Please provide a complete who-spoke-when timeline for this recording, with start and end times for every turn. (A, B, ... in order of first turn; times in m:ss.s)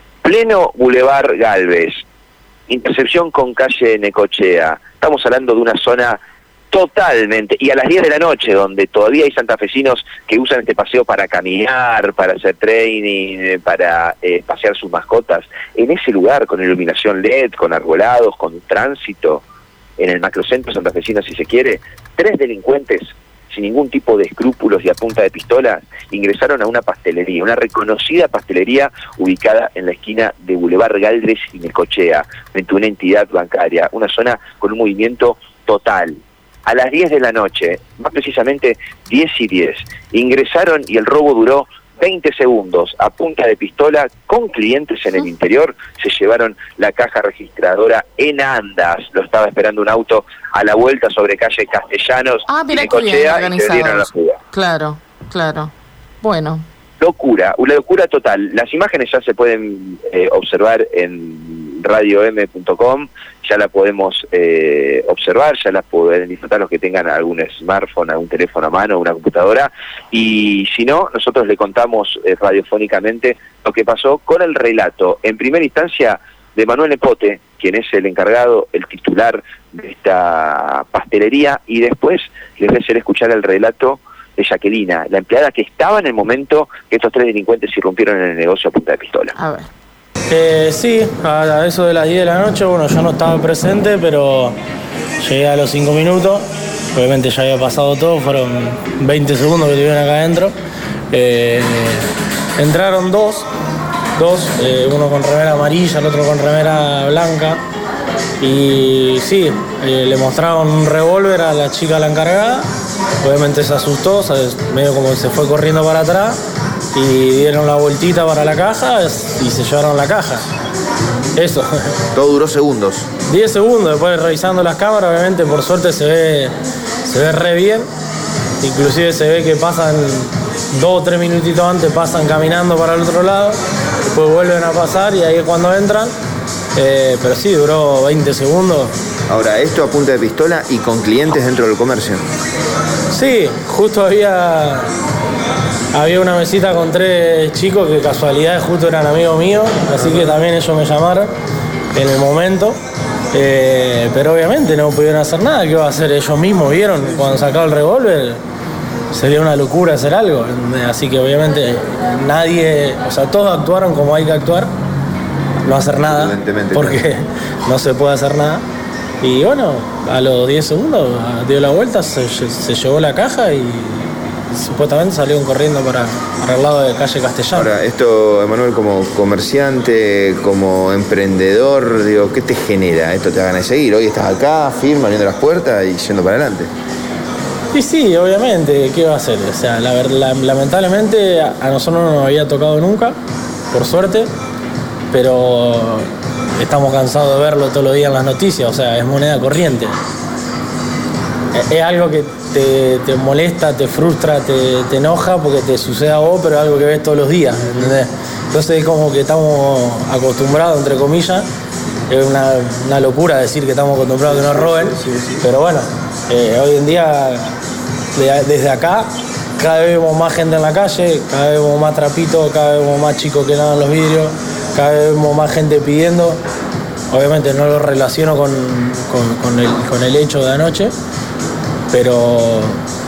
0:00.2-0:02.0 A
0:02.7-0:06.2 A
0:06.7-0:19.4 A
0:20.0-0:54.4 A
0:52.5-0:55.7 B
0:56.2-0:56.6 B
0:57.0-1:29.3 A
1:29.4-1:29.7 B
1:30.3-1:34.6 C
1:35.2-1:40.6 C
1:41.1-1:43.5 C
1:44.2-1:47.6 C
1:48.4-1:52.7 C
1:53.2-1:56.4 C
1:56.9-2:00.4 C
2:01.4-2:01.7 C
2:02.1-2:03.1 D
2:03.3-2:06.5 C
2:07.0-2:07.9 C
2:08.6-2:16.1 C
2:16.8-2:18.9 C
2:19.3-2:22.2 D
2:23.1-2:24.9 C
2:25.9-2:31.3 C
2:32.0-2:32.8 C
2:33.3-2:38.4 C
2:39.1-2:44.7 C
2:45.7-2:48.6 C
2:46.0-2:47.0 D
2:49.2-2:57.7 C
2:57.6-3:06.7 D
3:07.7-3:13.2 C
3:13.7-3:14.3 C
3:15.1-3:16.1 C
3:16.6-3:20.0 C
3:21.5-3:31.5 C
3:32.1-3:37.6 C
3:38.2-3:46.4 C
3:47.1-3:50.9 C
3:51.9-3:52.8 C